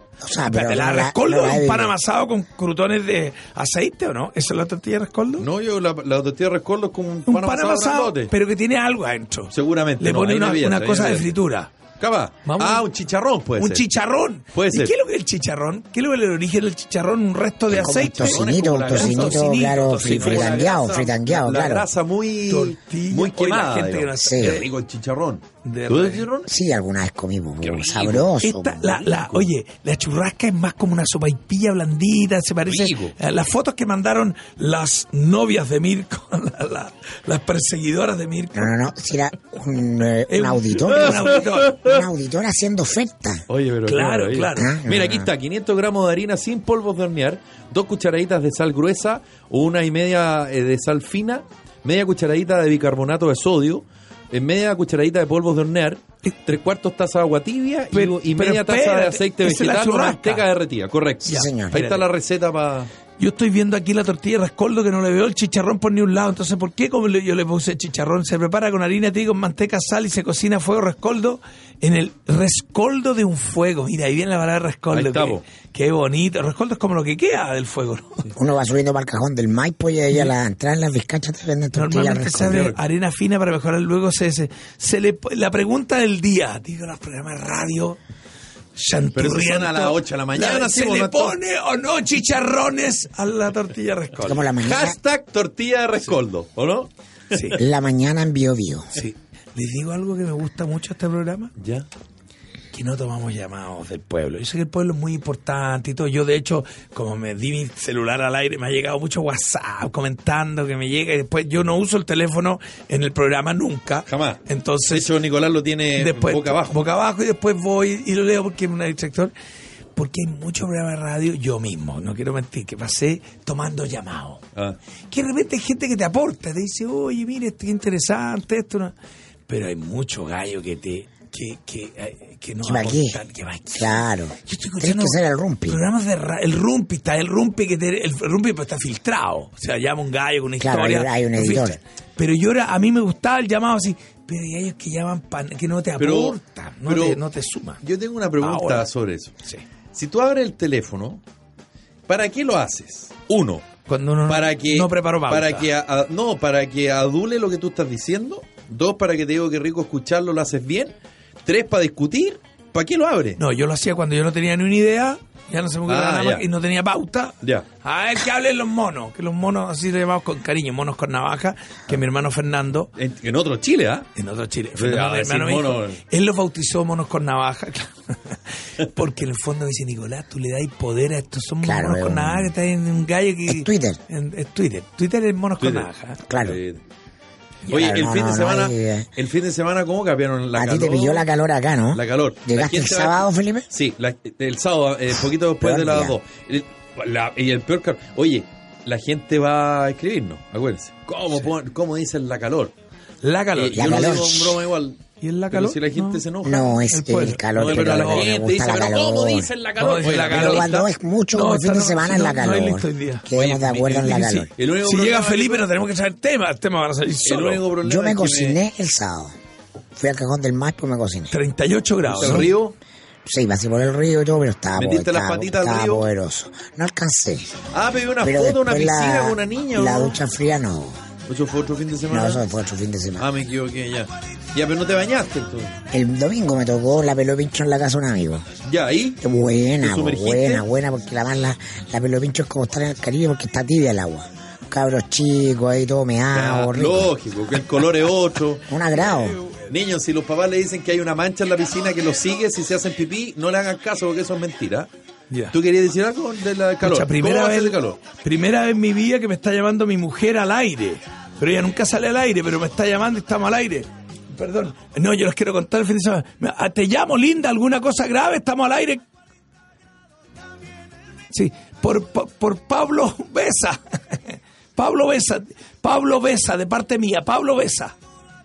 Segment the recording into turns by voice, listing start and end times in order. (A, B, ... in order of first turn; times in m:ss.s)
0:00.2-0:01.9 A
0:00.4-0:05.5 B
0:05.4-0:08.3 C
0:07.3-0:11.7 B
0:09.5-0:11.4 C
0:12.0-0:13.8 C
0:12.4-0:12.9 B
0:13.6-0:20.7 B
0:14.5-0:14.9 C
0:17.7-0:21.9 A
0:17.9-0:26.5 C
0:22.5-0:24.7 B
0:24.2-0:24.7 A
0:25.6-0:26.3 B
0:26.5-0:28.9 A
0:27.6-0:29.5 C
0:28.4-0:38.8 B
0:32.7-0:33.2 C
0:38.5-0:43.4 A
0:40.3-0:41.8 B
0:40.9-0:42.1 C
0:43.5-1:02.9 C
0:43.8-0:44.8 B
0:44.6-0:45.3 A
0:57.9-1:00.5 B
1:01.3-1:01.8 A
1:01.3-1:02.0 B
1:03.2-1:18.3 B
1:14.9-1:15.4 C
1:18.4-1:22.7 A
1:21.7-1:28.0 B
1:22.4-1:22.8 C
1:28.8-1:34.5 B
1:29.2-1:31.4 C
1:34.2-1:35.0 A
1:34.6-1:37.5 C
1:37.3-1:37.6 B
1:37.6-1:39.0 A
1:38.9-1:41.5 B
1:41.6-1:41.9 C
1:42.7-1:55.1 B
1:54.1-1:56.8 C
1:56.0-1:59.3 B
2:00.0-2:04.4 B
2:05.1-2:08.9 B
2:09.5-2:27.8 B
2:12.6-2:13.2 A
2:13.7-2:15.8 A
2:20.6-2:21.8 A
2:26.0-2:27.2 C
2:27.8-2:29.4 C
2:28.4-2:28.9 B
2:29.9-2:31.2 C
2:32.1-2:33.7 C
2:33.9-2:35.7 B
2:34.3-2:41.0 C
2:41.5-2:43.4 C
2:43.4-2:52.9 B
2:45.9-2:46.5 C
2:53.0-2:54.1 C
2:54.2-3:06.2 B
2:54.8-2:56.0 C
3:01.6-3:02.5 A
3:03.5-3:04.0 A
3:05.6-3:06.8 C
3:06.3-3:06.6 A
3:07.7-3:09.1 A
3:07.7-3:11.2 C
3:10.6-3:13.7 A
3:11.9-3:22.7 C
3:15.6-3:16.2 A
3:23.2-3:24.4 B
3:23.6-3:26.8 C
3:23.8-3:24.6 A
3:25.2-3:26.2 B
3:26.4-3:29.5 A
3:26.8-3:28.3 B
3:27.6-3:30.9 C
3:29.8-3:30.8 B
3:30.2-3:34.5 A
3:31.3-3:33.3 B
3:33.3-3:35.7 C
3:34.1-3:37.6 B
3:37.2-3:38.6 C
3:37.8-3:39.3 A
3:40.0-3:41.3 A
3:41.3-3:42.5 B
3:42.1-3:42.8 C
3:42.2-3:42.5 A
3:43.2-3:47.6 A
3:44.8-3:46.1 C
3:47.7-3:50.2 C
3:48.2-3:51.0 A
3:51.3-3:52.4 C
3:52.1-3:53.3 A
3:53.2-3:55.8 C
3:55.9-3:58.5 A
3:58.6-3:59.2 C
3:59.2-4:07.1 A
3:59.8-4:00.6 C
4:06.3-4:08.7 C
4:08.7-4:09.4 A
4:09.7-4:14.9 C
4:15.5-4:18.0 C
4:16.8-4:29.0 B
4:31.3-4:38.0 B